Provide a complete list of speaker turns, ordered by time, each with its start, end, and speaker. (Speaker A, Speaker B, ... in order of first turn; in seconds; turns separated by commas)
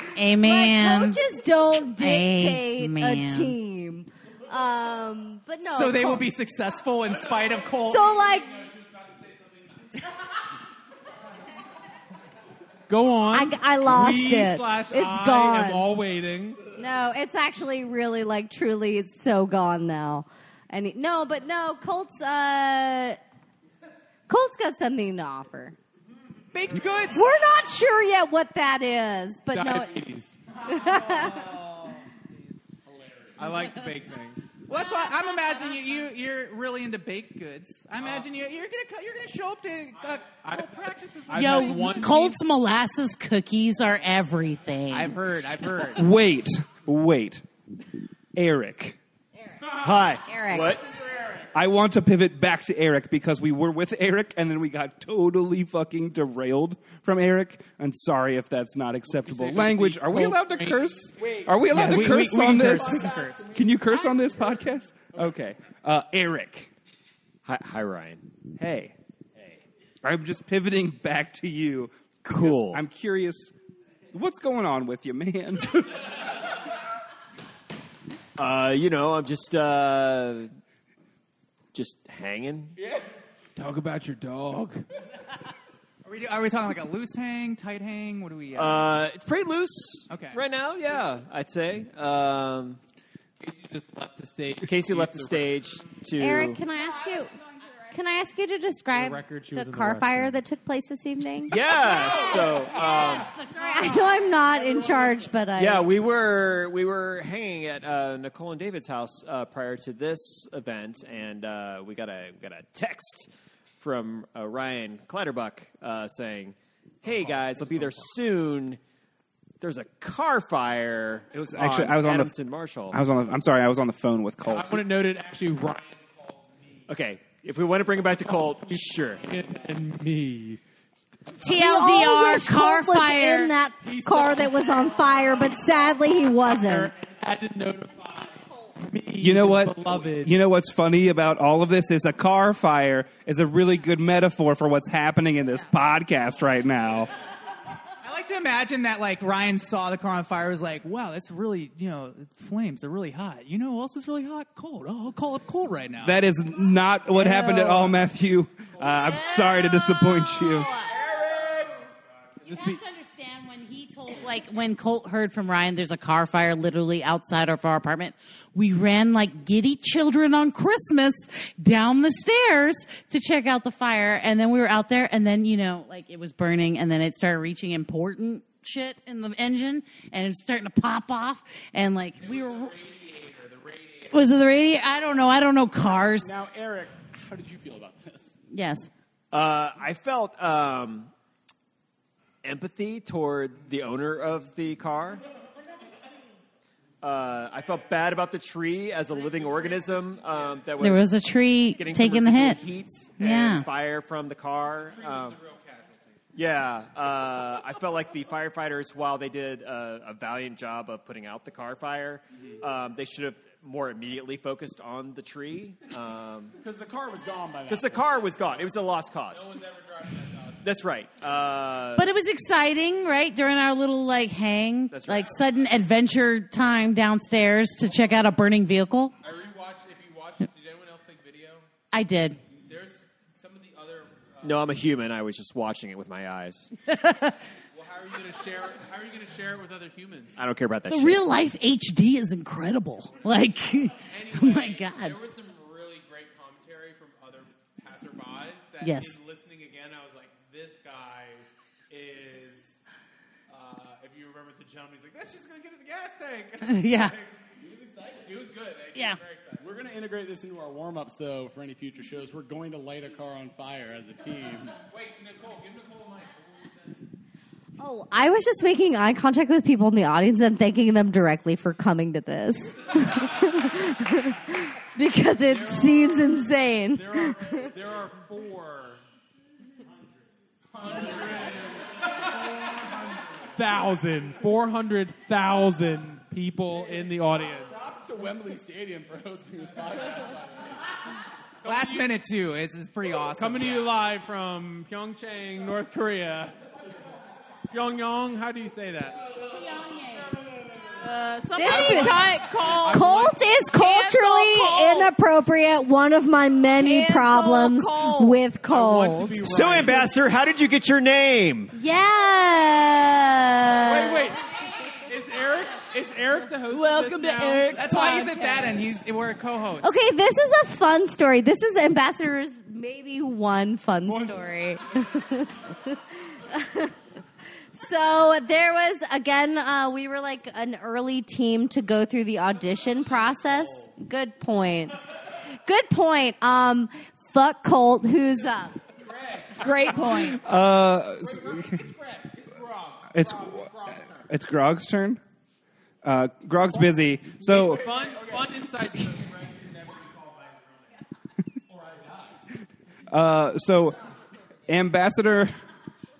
Speaker A: 0.1-1.2, Speaker B: 0.4-6.2, Speaker A: 1.9-3.5, Speaker C: 5.7-8.1, Speaker B: 7.9-8.6, Speaker D: 8.1-10.1, Speaker D: 12.9-16.6, Speaker B: 13.3-15.9, Speaker B: 16.8-23.2, Speaker B: 24.3-25.8, Speaker C: 26.5-27.3, Speaker B: 27.1-30.0, Speaker D: 29.5-30.4, Speaker B: 30.6-31.4, Speaker E: 32.8-33.5, Speaker D: 33.4-34.5, Speaker C: 34.7-42.3, Speaker D: 38.0-38.3, Speaker D: 40.4-42.4, Speaker A: 41.3-45.1, Speaker C: 44.9-46.0, Speaker F: 45.9-47.4, Speaker F: 48.3-49.0, Speaker G: 49.7-50.8, Speaker B: 50.2-50.7, Speaker E: 51.0-51.5, Speaker F: 51.5-66.7, Speaker D: 59.0-61.1, Speaker E: 61.2-61.7, Speaker C: 61.7-63.4, Speaker D: 61.7-62.3, Speaker E: 62.4-65.4, Speaker G: 67.4-68.2, Speaker F: 68.6-68.9, Speaker F: 70.0-73.5, Speaker G: 72.2-72.8, Speaker F: 74.1-76.0, Speaker G: 78.4-80.5, Speaker G: 81.7-82.7, Speaker D: 83.5-84.8, Speaker C: 86.0-89.0, Speaker G: 88.5-92.8, Speaker C: 90.1-90.4, Speaker D: 93.4-95.9, Speaker G: 94.6-96.6, Speaker B: 96.2-97.3, Speaker H: 96.7-98.2, Speaker B: 97.9-101.6, Speaker D: 98.9-100.4, Speaker G: 101.5-103.3, Speaker A: 101.8-104.1, Speaker H: 102.2-104.0, Speaker B: 103.6-105.8, Speaker E: 104.3-105.5, Speaker G: 105.5-118.8, Speaker D: 117.0-118.0, Speaker G: 119.6-123.0, Speaker F: 121.3-122.3, Speaker F: 122.9-124.8, Speaker D: 124.4-126.9, Speaker G: 126.9-129.2, Speaker D: 128.3-130.6, Speaker A: 131.4-133.5, Speaker B: 131.4-136.9, Speaker D: 133.8-135.5, Speaker D: 136.5-140.3, Speaker F: 139.2-147.1, Speaker C: 148.0-156.2, Speaker F: 156.0-160.7, Speaker H: 159.0-161.0, Speaker A: 162.4-182.7, Speaker D: 162.5-162.8, Speaker D: 182.2-184.4, Speaker A: 184.1-186.3, Speaker E: 186.2-188.3, Speaker A: 188.5-188.9, Speaker G: 189.3-191.1, Speaker G: 192.4-195.2, Speaker G: 197.0-201.2, Speaker A: 200.8-202.6, Speaker G: 201.8-205.4, Speaker A: 203.2-203.7, Speaker D: 204.8-206.2, Speaker G: 206.3-216.6, Speaker E: 216.6-218.3, Speaker G: 217.7-219.5, Speaker D: 219.3-220.7, Speaker G: 220.6-222.1, Speaker A: 221.9-229.1, Speaker G: 224.9-225.4, Speaker D: 229.2-231.7, Speaker A: 231.9-232.4, Speaker D: 232.6-234.8, Speaker G: 234.4-236.8, Speaker A: 236.9-237.3, Speaker D: 237.7-240.3, Speaker G: 240.4-241.3, Speaker A: 240.9-245.2, Speaker D: 244.0-252.8, Speaker A: 248.8-249.2, Speaker D: 253.5-257.4, Speaker A: 256.6-257.1, Speaker E: 257.6-258.3, Speaker D: 258.2-259.7, Speaker A: 258.9-259.2, Speaker E: 259.6-264.8, Speaker D: 264.9-267.0, Speaker B: 267.8-277.7, Speaker D: 275.4-279.0, Speaker D: 280.8-282.1, Speaker E: 280.8-281.5, Speaker D: 283.5-287.8, Speaker E: 286.8-290.8, Speaker D: 291.6-292.1, Speaker C: 291.6-293.9, Speaker D: 293.4-296.5, Speaker D: 297.7-299.2, Speaker A: 299.5-300.4, Speaker H: 301.0-305.1, Speaker B: 301.6-302.3, Speaker D: 301.7-303.4, Speaker B: 302.9-309.5, Speaker H: 306.8-308.4, Speaker D: 308.6-310.1, Speaker G: 309.4-311.7, Speaker B: 311.7-314.3, Speaker D: 313.8-317.8, Speaker H: 316.7-318.8, Speaker C: 317.7-319.9, Speaker B: 319.8-326.9, Speaker B: 327.7-335.0, Speaker D: 333.0-333.9, Speaker B: 335.6-338.8, Speaker D: 339.0-344.3, Speaker H: 339.6-340.4, Speaker F: 340.3-341.8, Speaker F: 343.1-343.7, Speaker F: 344.3-345.2, Speaker F: 346.0-347.8, Speaker D: 347.4-351.0, Speaker E: 347.8-348.6, Speaker E: 351.7-352.3, Speaker F: 353.1-354.0, Speaker F: 354.7-355.5